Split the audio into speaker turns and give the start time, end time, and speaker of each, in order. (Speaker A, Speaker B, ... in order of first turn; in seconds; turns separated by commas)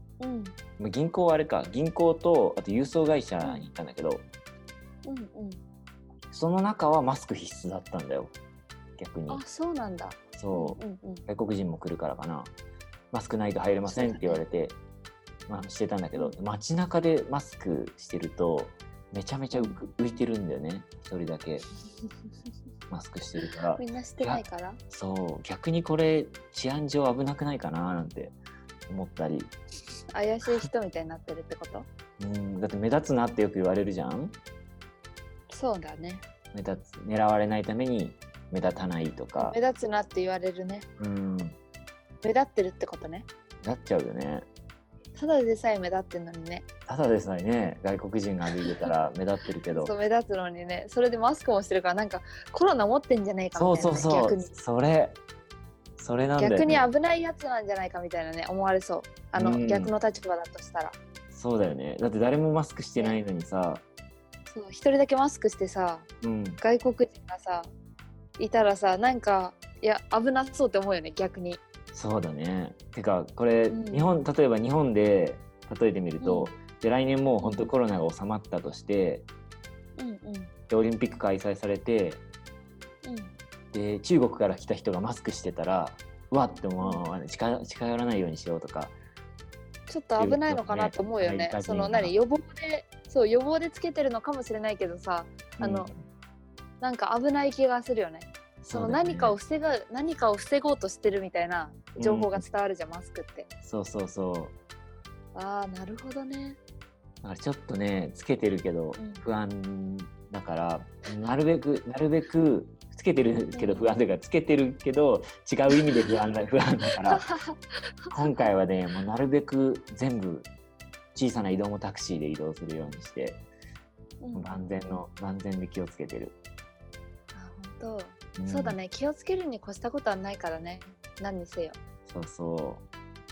Speaker A: 0.2-0.6, Speaker B: 0.8-4.3, Speaker A: 3.4-3.7, Speaker A: 5.0-5.6, Speaker B: 6.3-8.3, Speaker B: 9.0-9.4, Speaker A: 9.3-11.2, Speaker B: 10.3-12.5, Speaker B: 13.1-14.8, Speaker A: 13.9-14.4, Speaker B: 15.5-21.6, Speaker A: 19.5-19.8, Speaker B: 22.9-28.4, Speaker A: 23.8-24.8, Speaker B: 28.9-29.5, Speaker A: 30.1-31.9, Speaker B: 32.2-34.4, Speaker A: 35.5-36.2, Speaker B: 36.5-39.6, Speaker A: 39.4-40.9, Speaker B: 41.0-41.6, Speaker A: 42.2-43.3, Speaker B: 43.6-44.5, Speaker A: 45.2-46.6, Speaker B: 46.9-49.9, Speaker A: 49.7-54.5, Speaker B: 53.5-55.2, Speaker B: 56.0-56.9, Speaker A: 56.4-61.0, Speaker B: 59.4-59.9, Speaker B: 61.3-63.8, Speaker A: 64.5-66.1, Speaker B: 66.2-66.6, Speaker A: 66.6-67.7, Speaker A: 68.4-71.6, Speaker B: 71.9-79.3, Speaker A: 73.7-74.1, Speaker A: 76.2-76.5, Speaker A: 77.4-77.7, Speaker A: 80.0-80.5, Speaker B: 80.7-82.2, Speaker A: 83.0-83.3, Speaker B: 83.7-89.0, Speaker A: 89.9-95.9, Speaker B: 90.2-92.1, Speaker B: 95.6-96.0, Speaker A: 96.8-103.5, Speaker B: 98.6-99.4, Speaker B: 102.0-102.5, Speaker B: 103.6-104.5, Speaker A: 105.3-106.6, Speaker B: 107.2-117.3, Speaker A: 109.0-109.2, Speaker A: 113.5-114.0, Speaker A: 117.1-118.5, Speaker B: 118.1-120.5, Speaker B: 121.2-123.4, Speaker A: 124.2-124.6, Speaker B: 124.3-126.3, Speaker A: 127.3-131.8, Speaker B: 128.4-128.8, Speaker B: 132.1-132.8